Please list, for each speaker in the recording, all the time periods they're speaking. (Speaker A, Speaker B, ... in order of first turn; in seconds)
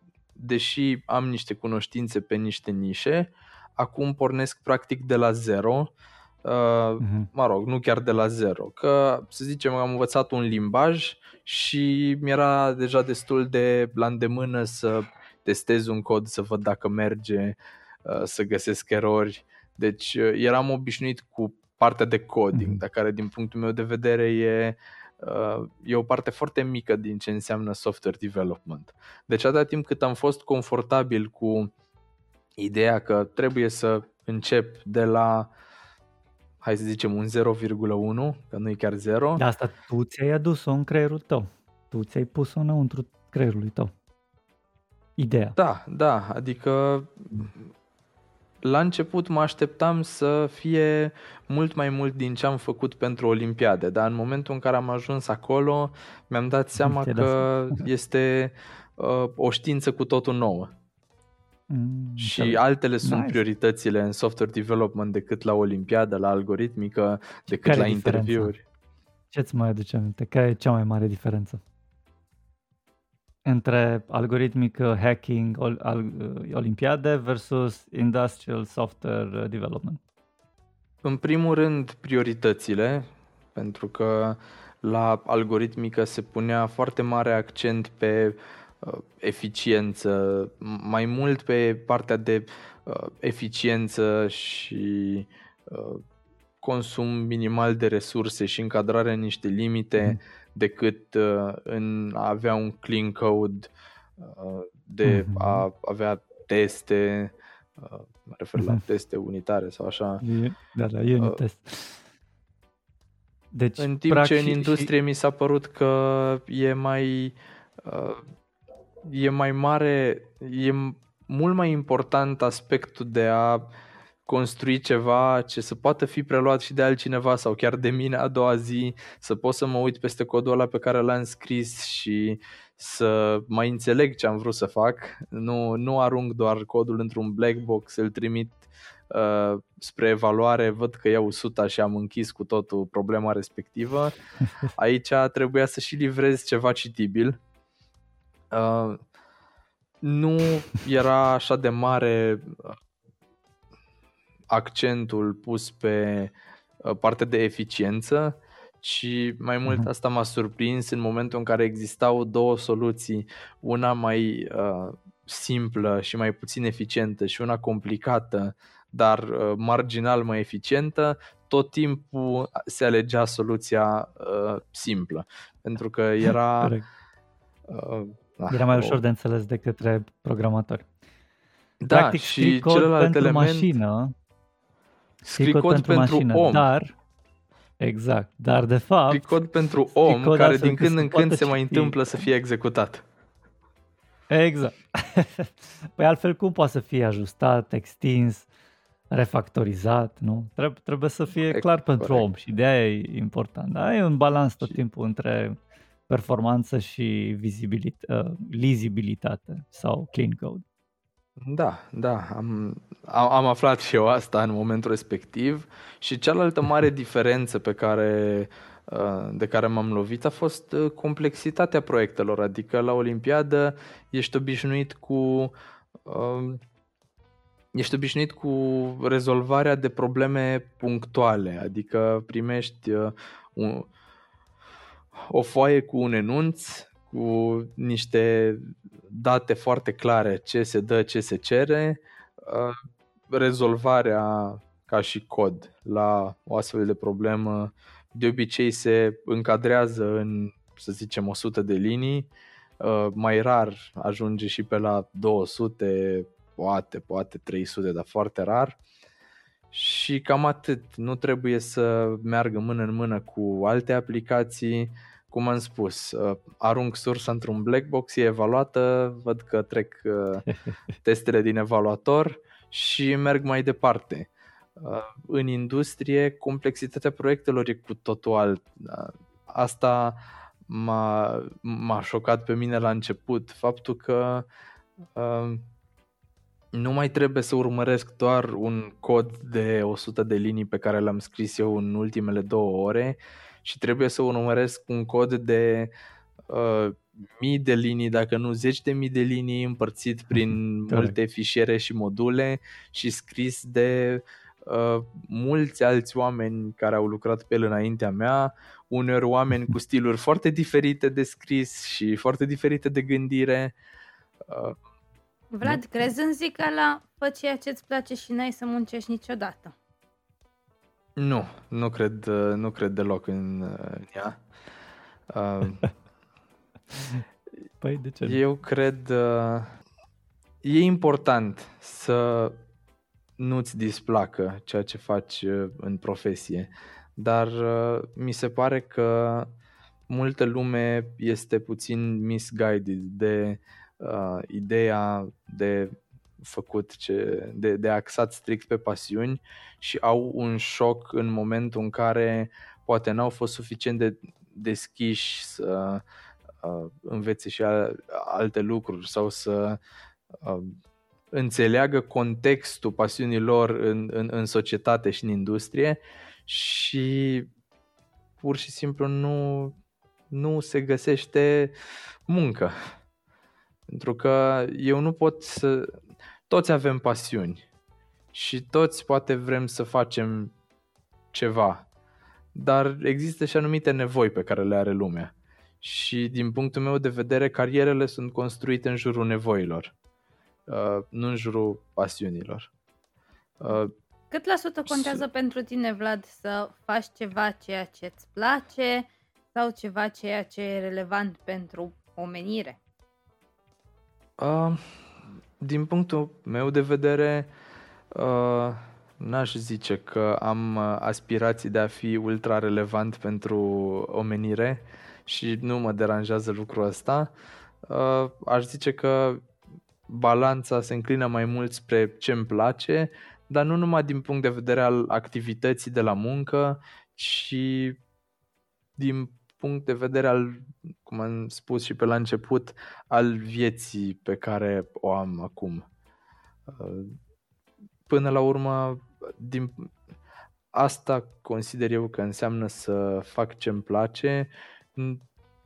Speaker A: 0.4-5.9, 6.4-31.7, 32.6-35.5, 36.6-39.4, 45.6-47.7, 48.6-60.7, 62.2-68.6, 81.0-96.0, 96.6-110.2, 113.8-118.2, 119.0-123.7, 124.3-144.2, 144.7-147.4, 148.5-149.0, 150.0-152.8, 154.5-176.8, 177.7-179.0, 181.8-183.7, 185.2-186.7, 189.1-193.0, 201.4-202.3, 211.4-225.5, 226.1-226.6, 227.7-233.9, 235.2-242.8, 243.3-258.8, 259.7-270.5, 271.0-284.5, 285.2-285.6, 286.7-295.9, 296.5-313.8, 314.5-314.8, 321.2-324.4, 325.3-325.9, 328.2-329.7, 330.6-332.6, 333.4-339.5, 340.1-356.0, 356.6-359.8, 360.4-360.8, 361.3-367.5, 368.4-369.8, 370.3-371.7, 372.3-372.8, 373.9-375.9, 376.5-377.6, 378.3-380.5, 381.3-381.9, 382.6-389.9, 390.7-392.7, 393.6-393.9, 394.9-395.2, 404.4-404.8, 405.6-407.5, 408.1-417.3, 417.9-419.4, 420.1-428.0, 429.0-435.9, 436.7-437.1, 438.1-439.9, 440.7-445.2
Speaker B: 7.0-7.3, 22.5-22.8, 39.4-43.9, 45.2-45.6, 56.8-57.8, 61.7-63.4, 67.5-68.5, 69.3-71.6, 73.5-80.0, 105.0-105.7, 110.2-112.0, 113.5-114.9, 178.5-180.9, 181.9-184.2, 185.4-186.9, 187.8-189.4, 190.0-192.0, 194.3-198.5, 199.1-210.6, 300.9-301.1, 326.9-327.2, 327.8-328.4
Speaker C: 315.5-319.7, 394.3-402.8